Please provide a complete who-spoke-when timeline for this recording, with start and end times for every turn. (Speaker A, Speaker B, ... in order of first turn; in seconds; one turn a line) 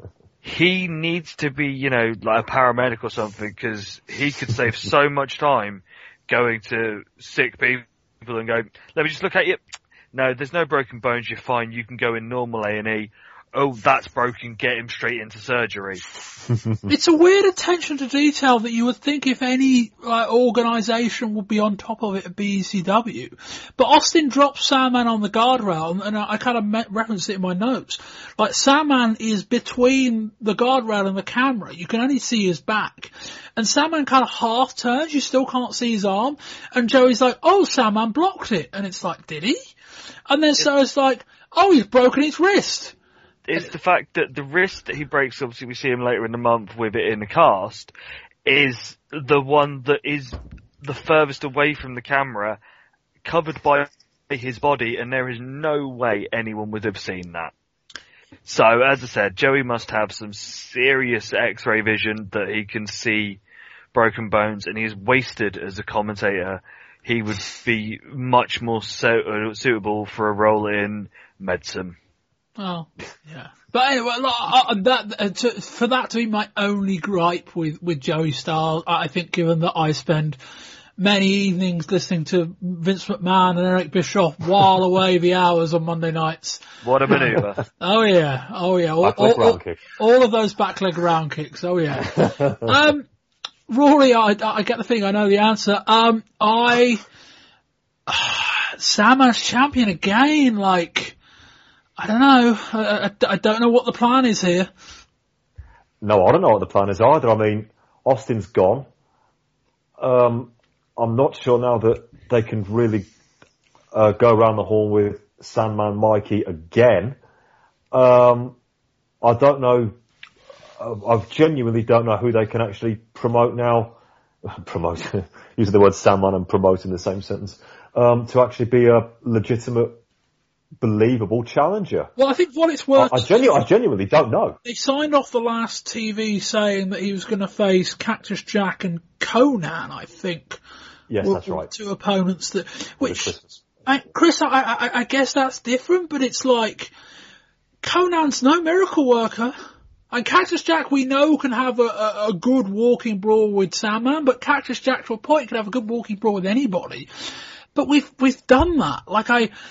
Speaker A: 0.4-9.6
Speaker A: 10.1-16.0
Speaker B: 16.9-39.6
Speaker B: 40.3-42.9
Speaker A: 43.5-47.9
Speaker A: 48.4-52.6
Speaker A: 53.2-57.5
Speaker A: 58.5-63.4
Speaker A: 63.9-72.0
Speaker B: 72.6-80.4
Speaker B: 81.0-93.0
Speaker A: 86.8-87.6
Speaker C: 89.0-89.8
Speaker B: 93.7-97.0
Speaker B: 98.1-101.1
Speaker B: 102.0-104.7
Speaker C: 106.0-108.9
Speaker C: 110.0-113.0
Speaker C: 113.9-117.2
Speaker C: 117.9-118.5
Speaker C: 119.2-119.9
Speaker C: 120.8-124.0
Speaker C: 124.6-130.0
Speaker C: 130.8-132.1
Speaker B: 132.2-133.5
Speaker C: 132.9-134.6
Speaker B: 134.6-140.6
Speaker C: 141.1-141.7
Speaker B: 141.2-143.3
Speaker C: 143.0-143.6
Speaker B: 143.8-146.9
Speaker B: 147.8-149.5
Speaker B: 150.1-157.1
Speaker B: 157.7-159.5